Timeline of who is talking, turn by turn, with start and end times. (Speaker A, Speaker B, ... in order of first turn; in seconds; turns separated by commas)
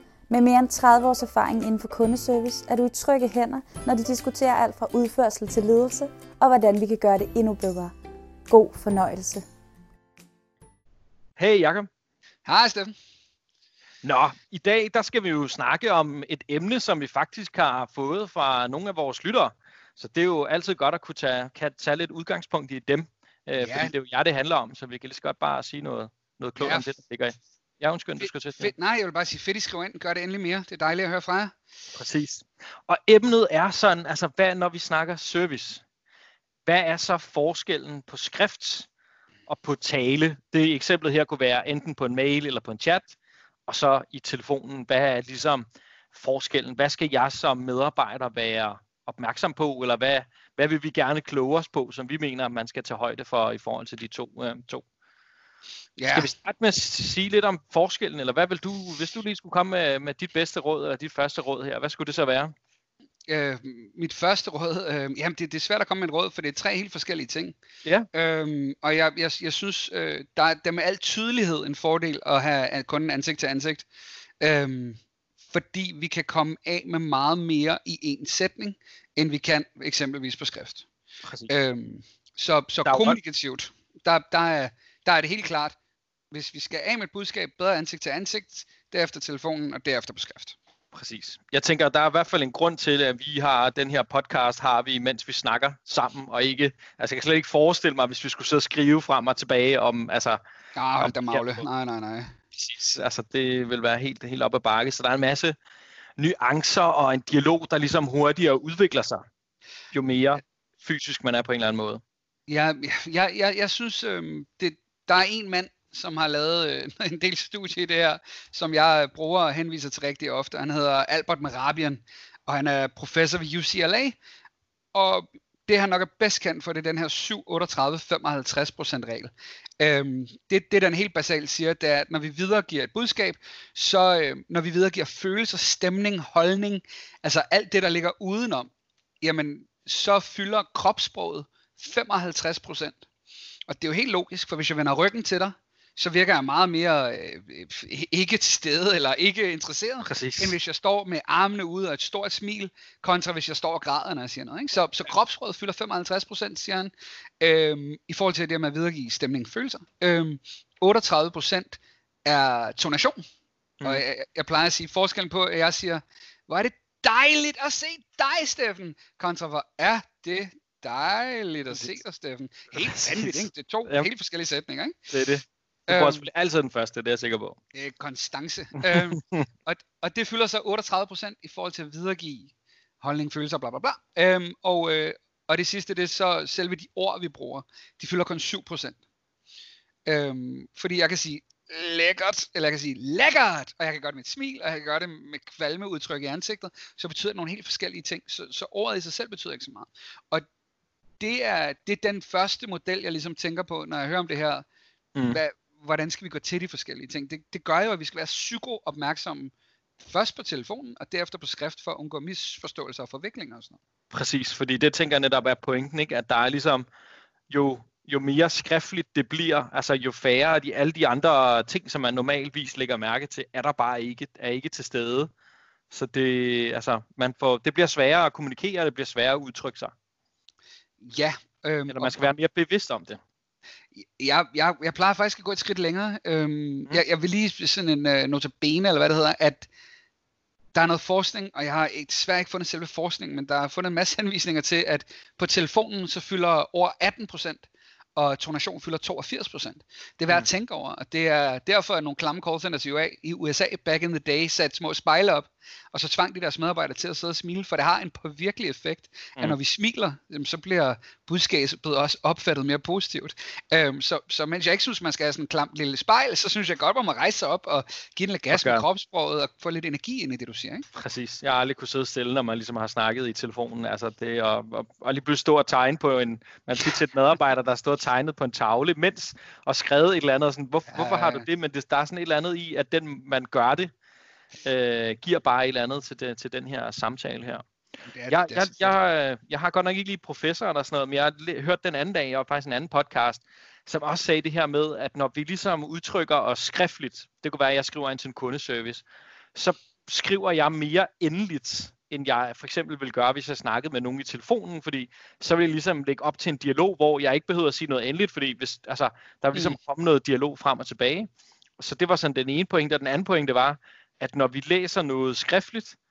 Speaker A: 0.3-7.9, Speaker A: 8.5-9.5, Speaker B: 11.4-11.9, Speaker C: 12.4-12.9, Speaker B: 14.0-28.7, Speaker C: 23.6-23.9, Speaker C: 26.6-26.9, Speaker C: 28.2-31.6, Speaker B: 31.9-35.8, Speaker B: 36.7-38.9, Speaker B: 39.5-43.1, Speaker B: 43.7-54.9, Speaker C: 56.0-56.3, Speaker B: 56.1-62.5, Speaker C: 63.3-67.6, Speaker C: 68.1-73.9, Speaker C: 74.4-80.9, Speaker B: 81.2-81.5, Speaker C: 81.5-85.8, Speaker B: 82.8-83.2, Speaker C: 86.3-90.6, Speaker B: 90.9-100.4, Speaker C: 100.7-102.3, Speaker B: 101.0-101.7, Speaker B: 102.5-105.6, Speaker B: 106.2-109.2, Speaker B: 109.9-112.0, Speaker C: 112.5-124.2, Speaker C: 124.9-138.7, Speaker C: 139.2-143.0, Speaker C: 143.7-163.2, Speaker B: 150.1-150.6, Speaker C: 163.8-175.0, Speaker B: 172.7-174.1, Speaker B: 175.1-177.6, Speaker C: 175.9-176.3, Speaker C: 177.7-189.0, Speaker B: 178.8-179.5, Speaker C: 190.1-200.4, Speaker C: 201.2-204.7, Speaker B: 205.2-205.4, Speaker C: 205.3-213.8, Speaker B: 214.1-216.9, Speaker B: 217.5-225.3, Speaker B: 225.9-229.9, Speaker C: 231.0-232.2, Speaker B: 231.9-233.2, Speaker C: 233.9-239.7, Speaker C: 240.7-270.9, Speaker B: 268.5-268.9, Speaker B: 270.9-283.9, Speaker C: 280.9-281.5, Speaker B: 284.6-287.6, Speaker C: 288.1-289.0, Speaker B: 288.3-299.0, Speaker B: 299.6-316.0